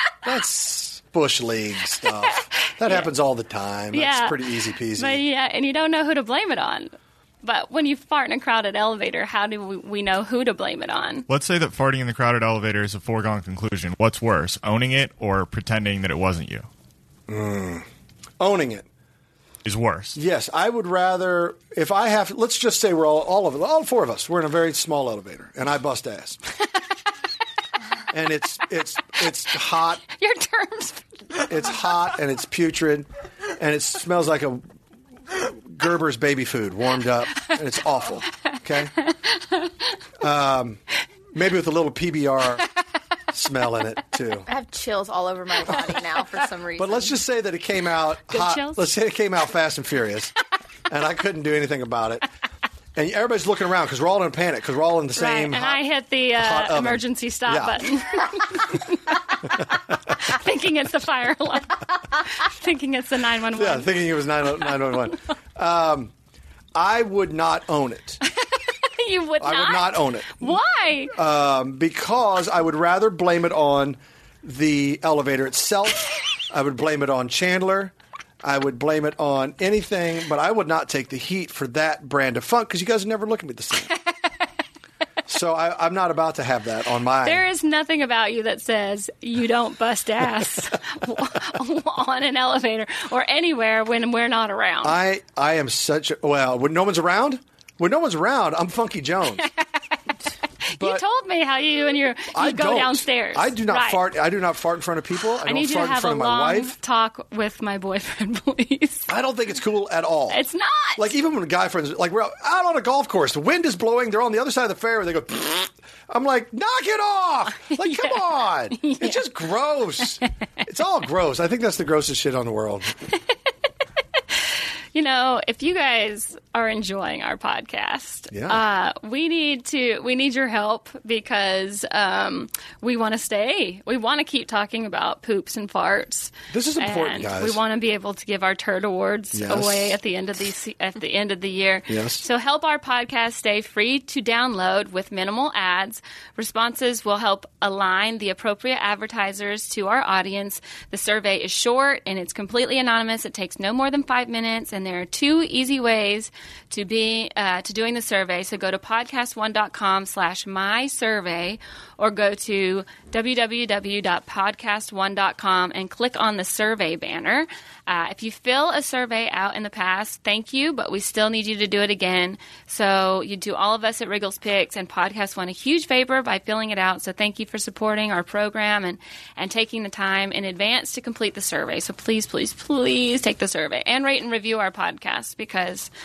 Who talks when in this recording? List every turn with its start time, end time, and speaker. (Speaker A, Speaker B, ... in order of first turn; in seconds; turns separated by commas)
Speaker A: 0.2-5.2, Speaker B: 2.7-3.1, Speaker B: 3.9-11.2, Speaker C: 11.3-16.7, Speaker A: 17.3-17.9, Speaker A: 18.4-18.9, Speaker C: 19.6-20.2, Speaker A: 20.1-26.4, Speaker A: 28.1-30.0, Speaker B: 30.1-31.5, Speaker A: 31.5-34.6, Speaker A: 35.3-38.9, Speaker A: 40.2-40.8, Speaker A: 41.3-42.7, Speaker A: 43.3-44.5, Speaker D: 44.5-47.1, Speaker A: 46.8-50.3, Speaker B: 48.3-48.9, Speaker A: 50.9-52.2, Speaker A: 52.9-55.8, Speaker B: 55.1-64.0, Speaker A: 56.4-58.4, Speaker A: 59.5-59.9, Speaker A: 63.5-66.1, Speaker A: 66.7-68.2, Speaker B: 68.4-71.1, Speaker A: 69.4-70.6, Speaker A: 71.1-83.9, Speaker A: 85.3-87.4, Speaker B: 87.2-95.0, Speaker A: 94.8-99.5, Speaker B: 100.6-104.0, Speaker A: 100.8-101.0, Speaker A: 102.3-106.7, Speaker B: 105.4-109.1, Speaker A: 109.1-110.4, Speaker B: 110.3-111.1, Speaker A: 111.0-123.0, Speaker B: 117.7-119.2, Speaker B: 124.9-185.9, Speaker A: 128.3-128.6, Speaker A: 136.5-137.6, Speaker A: 139.3-140.0, Speaker A: 141.9-142.2